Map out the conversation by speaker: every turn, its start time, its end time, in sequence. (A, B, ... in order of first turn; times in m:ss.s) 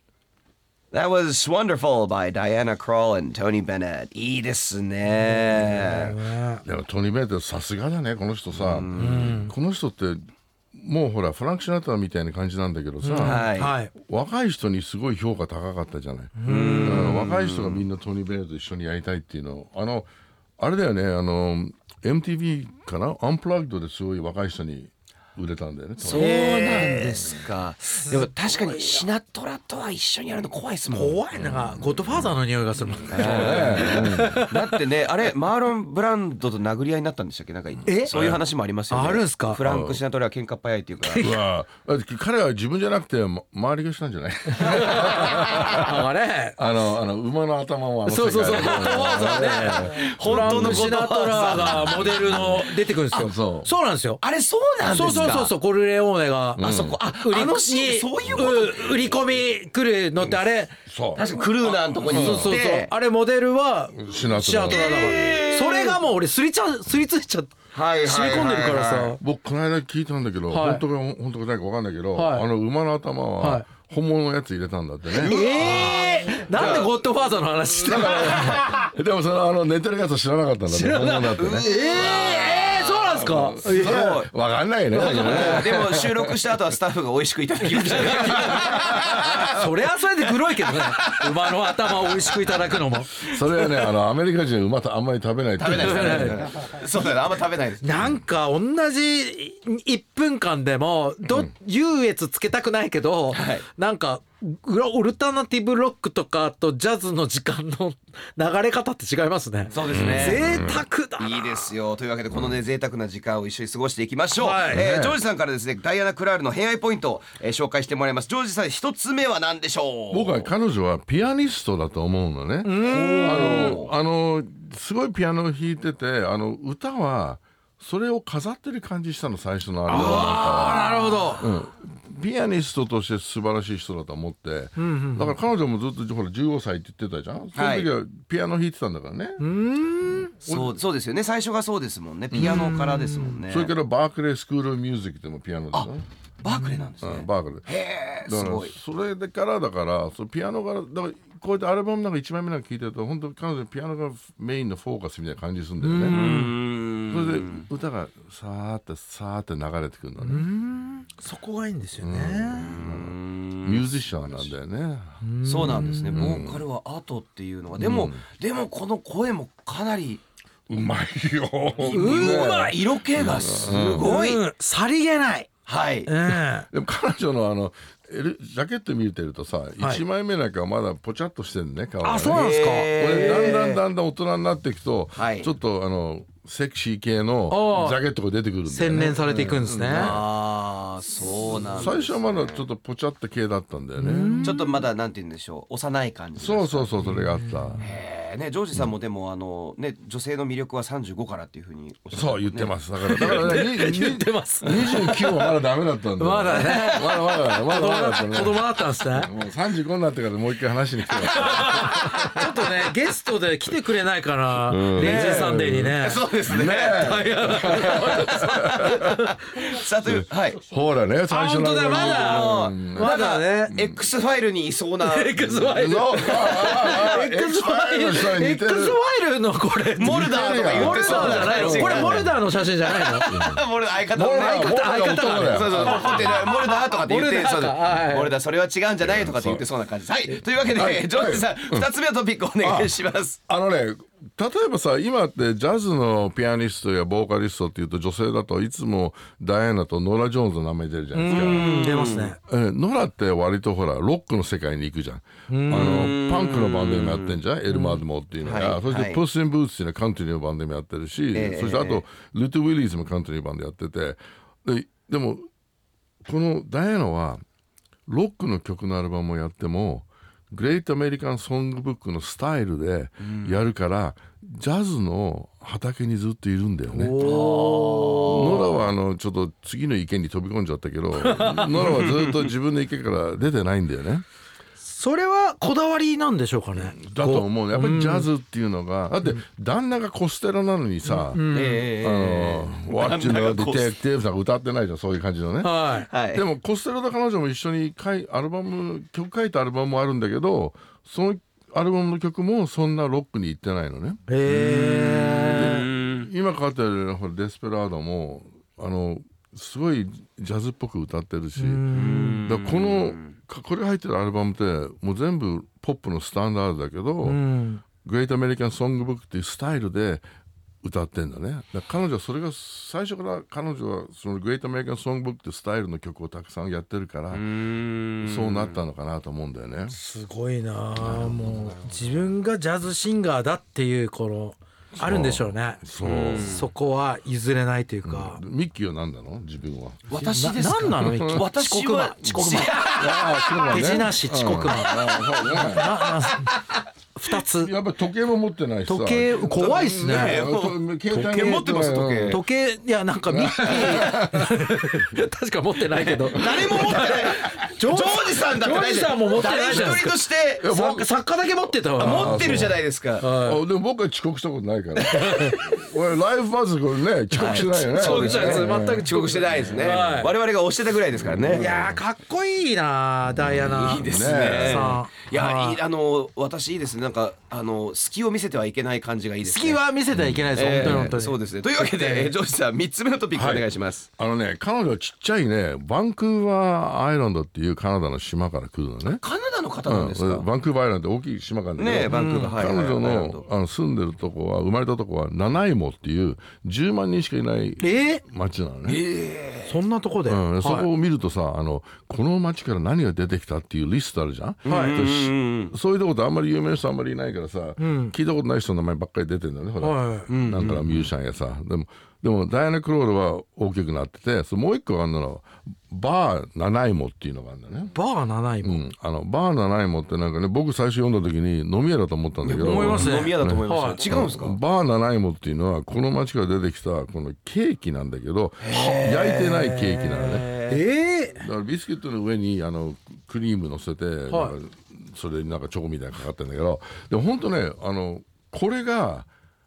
0:00.9-0:06.2 A
0:05.6-0:06.6 B
0:06.6-0:10.2 C
0:08.5-0:09.4 A
0:09.0-0:09.5 B
0:10.7-0:26.3 C
0:13.0-0:13.9 B
0:13.2-0:13.7 A
0:16.4-0:17.3 B
0:16.4-0:17.8 A
0:26.0-0:31.2 A
0:26.1-0:27.4 B
0:28.0-0:29.0 B
0:30.9-0:34.7 B
0:31.3-0:32.3 C
0:33.1-0:41.2 A
0:33.2-0:34.4 C
0:37.8-0:38.2 B
0:38.1-0:38.4 C
0:38.9-0:39.6 B
0:39.6-0:40.0 C
0:41.0-0:46.0 C
0:41.1-0:41.4 B
0:44.6-0:46.6 B
0:46.6-0:50.9 C
0:48.0-0:54.2 B
0:48.5-0:53.3 A
0:51.5-0:53.7 C
0:54.2-0:55.5 A
0:54.9-1:00.7 B
0:56.6-0:57.0 C
0:56.6-0:59.2 A
0:58.2-0:58.5 C
1:00.9-1:01.3 C
1:01.1-1:02.9 A
1:02.0-1:09.2 B
1:02.0-1:02.6 C
1:03.9-1:05.1 C
1:04.7-1:06.0 A
1:07.7-1:09.2 A
1:09.2-1:15.4 C
1:10.5-1:10.8 B
1:12.1-1:12.4 B
1:13.4-1:13.7 B
1:15.1-1:16.9 A
1:15.2-1:18.8 B
1:16.6-1:16.9 C
1:17.7-1:21.6 C
1:20.6-1:24.1 B
1:21.4-1:23.1 A
1:23.1-1:26.3 C
1:23.6-1:24.3 A
1:24.9-1:29.5 A
1:25.0-1:25.5 B
1:27.7-1:28.7 B
1:28.4-1:29.0 C
1:29.3-1:33.3 B
1:30.6-1:32.4 A
1:33.2-1:36.4 C
1:35.6-1:38.1 A
1:35.7-1:36.4 B
1:37.8-1:51.7 B
1:43.3-1:43.6 A
1:49.7-1:50.5 A
1:49.9-1:50.8 C
1:51.2-2:00.5 A
1:54.4-1:54.9 B
1:54.7-1:55.2 C
2:00.1-2:19.4 C
2:02.6-2:03.8 B
2:02.8-2:03.9 A
2:09.9-2:11.5 B
2:10.0-2:10.5 A
2:14.8-2:15.4 B
2:17.5-2:17.9 A
2:19.4-2:20.3 B
2:20.4-2:20.7 C
2:20.4-2:23.7 A
2:22.3-2:22.8 C
2:22.4-2:23.3 B
2:23.5-2:26.0 C
2:25.7-2:28.7 A
2:26.5-2:26.9 B
2:27.0-2:27.7 C
2:28.2-2:36.2 C
2:35.8-2:36.5 B
2:36.1-2:37.7 A
2:37.1-2:40.5 C
2:40.2-2:42.7 B
2:42.0-2:45.2 C
2:42.5-2:44.5 A
2:45.2-2:46.2 B
2:45.4-2:50.2 A
2:46.1-2:46.6 C
2:47.8-2:48.2 C
2:50.7-2:54.1 C
2:51.8-2:52.8 B
2:51.8-2:54.4 A
2:53.7-2:55.5 B
2:55.6-2:56.1 A
2:56.0-2:56.7 B
2:56.3-3:10.2 C
3:02.0-3:03.6 B
3:02.2-3:03.8 A
3:05.2-3:05.5 A
3:07.5-3:08.0 B
3:08.6-3:10.2 B
3:09.2-3:12.6 A
3:11.7-3:14.5 C
3:14.0-3:14.8 B
3:14.4-3:17.0 A
3:16.4-3:17.8 C
3:17.1-3:17.8 B
3:17.8-3:23.6 A
3:22.1-3:32.2 C
3:23.0-3:25.6 B
3:26.2-3:29.3 B
3:26.5-3:27.1 A
3:31.3-3:36.3 B
3:31.4-3:32.4 A
3:34.6-3:39.0 C
3:35.0-3:40.6 A
3:36.9-3:39.3 B
3:40.0-3:43.2 C
3:41.3-3:43.8 B
3:41.9-3:47.0 A
3:43.7-3:44.0 C
3:45.0-3:53.3 B
3:45.6-3:49.0 C
3:50.0-4:03.4 A
3:50.0-3:52.3 C
3:53.3-3:56.5 C
3:54.3-3:58.3 B
3:59.0-3:59.6 C
4:00.6-4:01.9 C
4:02.6-4:02.9 C
4:03.5-4:11.7 C
4:11.1-4:12.4 B
4:11.3-4:12.3 A
4:12.4-4:25.5 C
4:15.5-4:16.1 B
4:15.7-4:17.4 A
4:17.7-4:18.0 B
4:18.4-4:19.2 A
4:21.3-4:22.0 A
4:26.2-4:27.4 C
4:28.1-4:37.1 C
4:33.2-4:33.6 A
4:36.9-4:38.4 B
4:37.2-4:38.9 A
4:38.3-4:44.2 C
4:41.2-4:42.1 B
4:41.8-4:42.5 A
4:44.8-4:48.3 B
4:46.7-4:51.5 C
4:51.0-4:51.8 B
4:51.5-4:54.0 A
4:52.0-4:55.7 C
4:55.6-4:56.1 B
4:56.1-4:56.4 A
4:56.3-5:04.2 C
5:04.3-5:05.8 B
5:04.4-5:06.3 A
5:05.4-5:11.8 C
5:11.6-5:12.4 B
5:11.9-5:13.4 A
5:12.4-5:17.4 C
5:17.2-5:17.8 B
5:18.0-5:20.2 C
5:20.8-5:27.4 C
5:27.3-5:28.8 A
5:28.2-5:30.0 C
5:29.9-5:38.4 B
5:31.0-5:31.9 C
5:35.0-5:36.6 C
5:36.0-5:36.7 A
5:38.0-5:41.4 C
5:40.1-5:43.1 A
5:40.2-5:47.7 B
5:43.0-5:45.9 C
5:47.4-5:52.4 C
5:48.8-5:50.5 B
5:49.6-5:52.4 A
5:51.1-5:51.6 B
5:52.3-6:02.6 B
5:53.3-5:54.5 C
5:56.3-6:00.7 A
5:56.9-5:57.2 C
5:59.5-6:00.0 C
6:00.6-6:01.1 C
6:02.0-6:03.3 A
6:02.0-6:09.1 C
6:03.2-6:03.6 B
6:05.0-6:05.8 B
6:07.3-6:10.3 B
6:07.3-6:11.8 A
6:11.2-6:12.0 C
6:11.5-6:15.8 B
6:13.4-6:14.9 C
6:13.5-6:19.8 A
6:19.4-6:22.3 B
6:20.1-6:21.1 C
6:20.5-6:24.1 A
6:23.3-6:23.6 C
6:24.2-6:29.2 C
6:29.0-6:30.4 A
6:29.8-6:39.0 C
6:31.8-6:33.4 A
6:32.1-6:32.6 B
6:37.8-6:38.2 B
6:38.8-6:39.8 A
6:39.7-6:40.9 B
6:40.2-6:57.9 C
6:44.6-6:45.7 A
6:44.6-6:45.0 B
6:47.8-6:48.1 B
6:49.8-6:50.3 B
6:50.3-6:51.1 A
6:57.9-6:58.8 B
6:58.6-7:10.5 C
7:02.4-7:04.6 A
7:02.5-7:04.0 B
7:08.6-7:10.8 A
7:10.7-7:11.4 B
7:11.4-7:19.3 C
7:14.3-7:14.5 B